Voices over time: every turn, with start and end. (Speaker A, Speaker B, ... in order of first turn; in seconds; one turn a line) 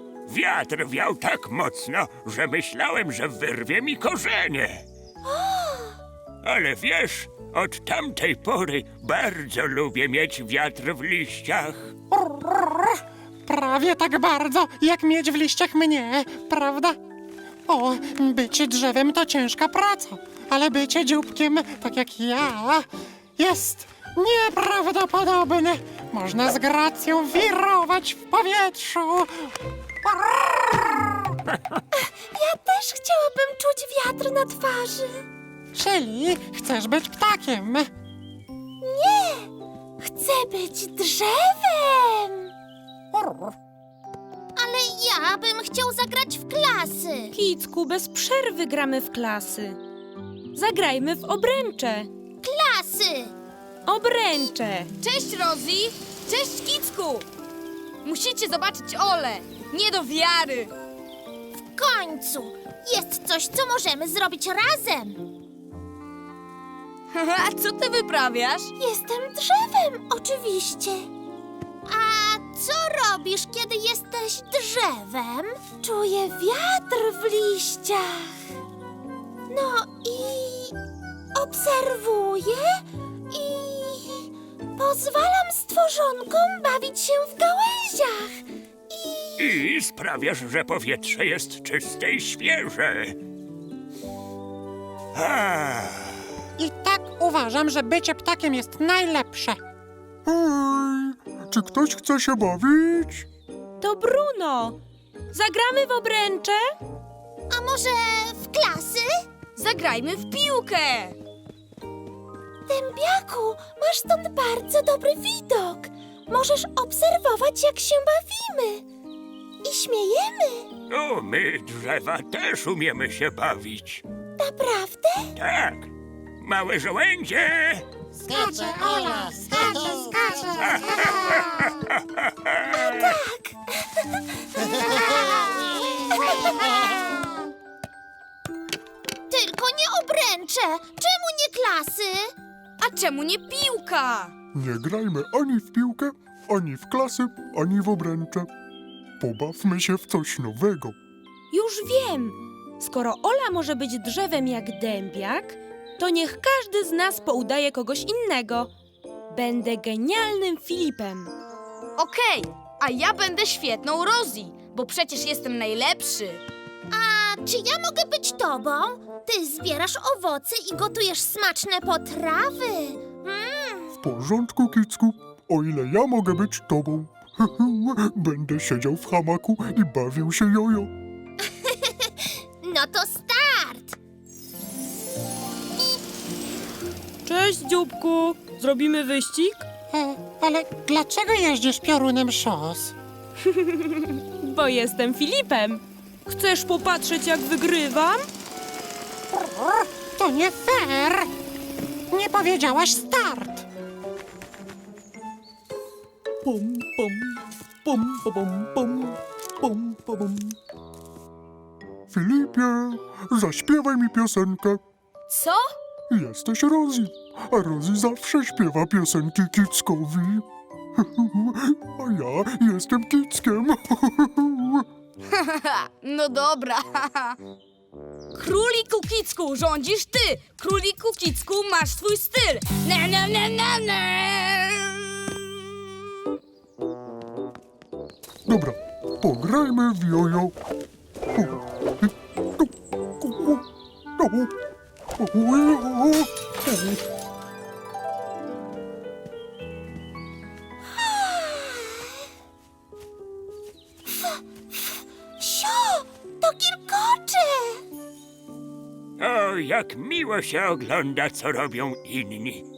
Speaker A: 0.2-4.8
Speaker B: 5.2-6.0
Speaker A: 6.4-11.9
Speaker C: 12.1-17.0
Speaker C: 17.7-29.5
Speaker C: 30.0-31.1
Speaker B: 32.3-35.2
Speaker C: 35.7-37.9
Speaker B: 38.8-39.5
Speaker B: 40.0-42.5
Speaker C: 43.1-43.5
Speaker B: 44.5-47.3
Speaker D: 47.3-49.8
Speaker D: 50.5-52.1
Speaker B: 52.4-53.3
Speaker D: 53.9-54.9
Speaker E: 55.0-57.2
Speaker E: 58.0-60.7
Speaker B: 61.7-65.2
Speaker E: 67.1-68.7
Speaker B: 68.8-71.1
Speaker B: 71.9-78.3
Speaker B: 79.5-80.7
Speaker B: 81.3-89.6
Speaker A: 89.4-93.2
Speaker A: 95.1-96.2
Speaker C: 96.6-99.6
Speaker F: 100.2-103.3
Speaker D: 103.8-104.8
Speaker D: 105.3-106.7
Speaker B: 107.5-109.1
Speaker E: 109.5-111.2
Speaker B: 112.7-118.8
Speaker B: 119.6-120.7
Speaker A: 120.9-124.0
Speaker B: 124.4-125.3
Speaker A: 125.3-125.9
Speaker A: 126.4-127.8
Speaker B: 128.3-130.9
Speaker A: 130.8-132.6
Speaker B: 132.7-134.0
Speaker B: 134.6-137.0
Speaker B: 139.3-142.3
Speaker E: 142.8-144.3
Speaker F: 144.5-148.5
Speaker F: 149.2-150.9
Speaker D: 151.5-158.7
Speaker D: 159.3-161.3
Speaker E: 162.0-166.4
Speaker B: 166.9-174.0
Speaker F: 174.0-180.9
Speaker B: 182.6-183.9
Speaker D: 187.2-189.6
Speaker C: 189.9-192.9
Speaker D: 193.5-198.3
Speaker C: 199.3-201.3
Speaker C: 202.1-203.7
Speaker D: 206.5-207.2
Speaker D: 207.9-209.1
Speaker D: 209.7-210.4
Speaker F: 212.1-214.8
Speaker E: 215.3-215.6
Speaker F: 216.1-224.9
Speaker E: 225.2-227.4
Speaker E: 228.3-236.4
Speaker F: 238.4-240.5
Speaker F: 241.3-243.7
Speaker F: 244.2-244.5
Speaker F: 245.2-247.0
Speaker B: 250.9-252.2
Speaker B: 255.4-257.8
Speaker A: 259.2-262.6